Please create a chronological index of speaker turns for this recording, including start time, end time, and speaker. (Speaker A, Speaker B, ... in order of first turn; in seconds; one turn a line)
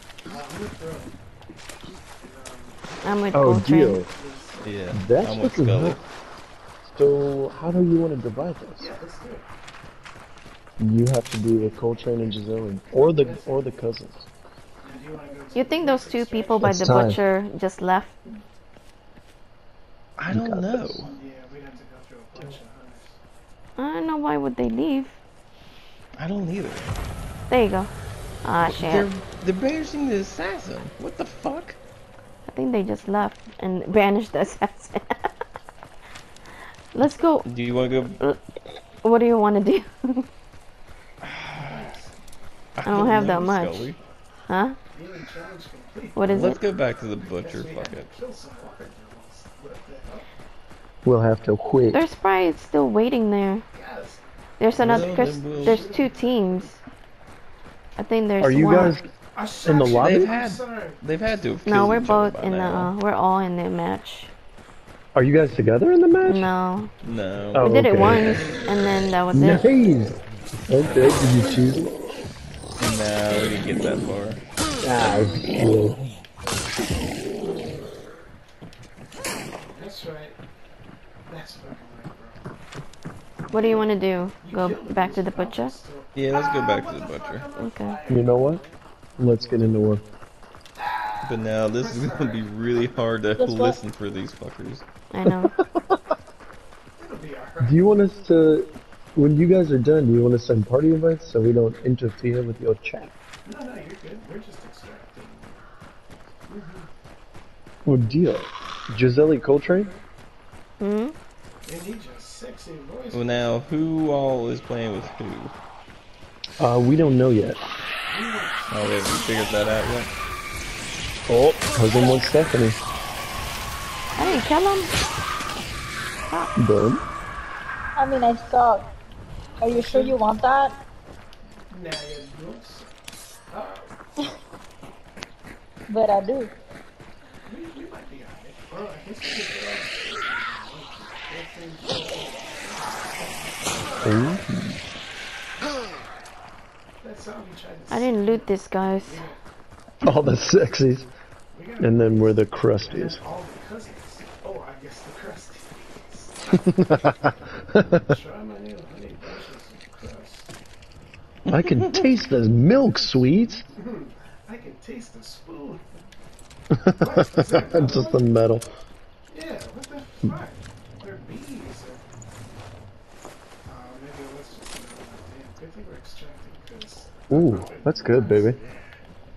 Speaker A: 0.3-1.2
Speaker A: 2.2-4.9
Speaker B: 3.0-4.0
Speaker C: 3.3-4.1
Speaker D: 4.6-6.0
Speaker C: 4.9-6.0
Speaker C: 6.8-8.9
Speaker A: 8.8-9.5
Speaker C: 10.8-14.3
Speaker A: 13.0-13.8
Speaker A: 14.8-17.0
Speaker B: 15.5-18.2
Speaker C: 16.6-17.2
Speaker D: 20.2-21.1
Speaker C: 20.3-20.9
Speaker A: 21.0-23.2
Speaker B: 23.8-25.2
Speaker D: 26.2-26.9
Speaker B: 27.5-27.9
Speaker B: 28.4-29.1
Speaker D: 28.6-31.8
Speaker B: 32.5-35.3
Speaker B: 36.9-37.5
Speaker D: 37.5-38.2
Speaker A: 37.8-38.2
Speaker B: 39.0-40.3
Speaker D: 41.2-41.9
Speaker A: 41.5-42.1
Speaker D: 42.8-44.0
Speaker B: 42.8-43.9
Speaker A: 43.0-43.5
Speaker B: 44.5-44.8
Speaker A: 44.9-50.2
Speaker B: 46.2-46.6
Speaker D: 46.3-48.1
Speaker C: 51.0-52.0
Speaker B: 51.9-53.6
Speaker A: 53.7-56.7
Speaker B: 54.6-56.8
Speaker D: 54.8-55.9
Speaker B: 58.0-59.0
Speaker C: 58.4-59.0
Speaker A: 59.3-61.4
Speaker C: 59.6-60.3
Speaker D: 60.0-62.9
Speaker B: 61.6-64.3
Speaker C: 65.2-66.5
Speaker B: 66.3-66.9
Speaker D: 67.0-67.7
Speaker C: 67.5-68.6
Speaker B: 67.6-69.7
Speaker C: 69.3-70.2
Speaker C: 70.7-71.9
Speaker D: 72.8-74.4
Speaker C: 74.8-76.0
Speaker A: 79.7-80.4
Speaker A: 81.3-82.4
Speaker A: 83.5-88.4
Speaker B: 83.5-85.8
Speaker D: 86.1-87.5
Speaker B: 87.6-88.0
Speaker C: 88.1-88.6
Speaker C: 89.2-90.0
Speaker A: 90.8-92.8
Speaker D: 91.2-94.8
Speaker E: 93.4-93.8
Speaker B: 95.1-95.5
Speaker C: 95.5-96.0
Speaker A: 97.0-97.9
Speaker C: 97.6-103.1
Speaker A: 103.5-105.6
Speaker A: 106.5-106.9
Speaker C: 107.8-109.9
Speaker A: 109.4-110.0
Speaker B: 110.8-111.2
Speaker A: 111.6-113.6
Speaker D: 113.1-115.5
Speaker C: 116.6-117.6
Speaker A: 118.1-119.6
Speaker D: 118.7-120.1
Speaker C: 121.3-122.8
Speaker B: 124.2-124.9
Speaker C: 126.6-127.0
Speaker E: 128.0-128.9
Speaker E: 129.6-130.8
Speaker A: 129.7-130.3
Speaker A: 131.7-132.9
Speaker A: 133.5-134.0
Speaker E: 135.9-136.5
Speaker A: 137.5-144.0
Speaker C: 144.0-144.8
Speaker A: 147.0-149.4
Speaker B: 147.9-149.3
Speaker C: 150.0-151.1
Speaker A: 150.2-156.4
Speaker C: 151.8-153.2
Speaker C: 156.7-158.1
Speaker A: 157.8-160.5
Speaker D: 161.5-162.1
Speaker C: 161.5-163.7
Speaker A: 163.8-165.9
Speaker C: 166.7-168.7
Speaker A: 167.0-168.2
Speaker A: 169.3-172.0
Speaker A: 173.7-178.7
Speaker C: 177.3-178.6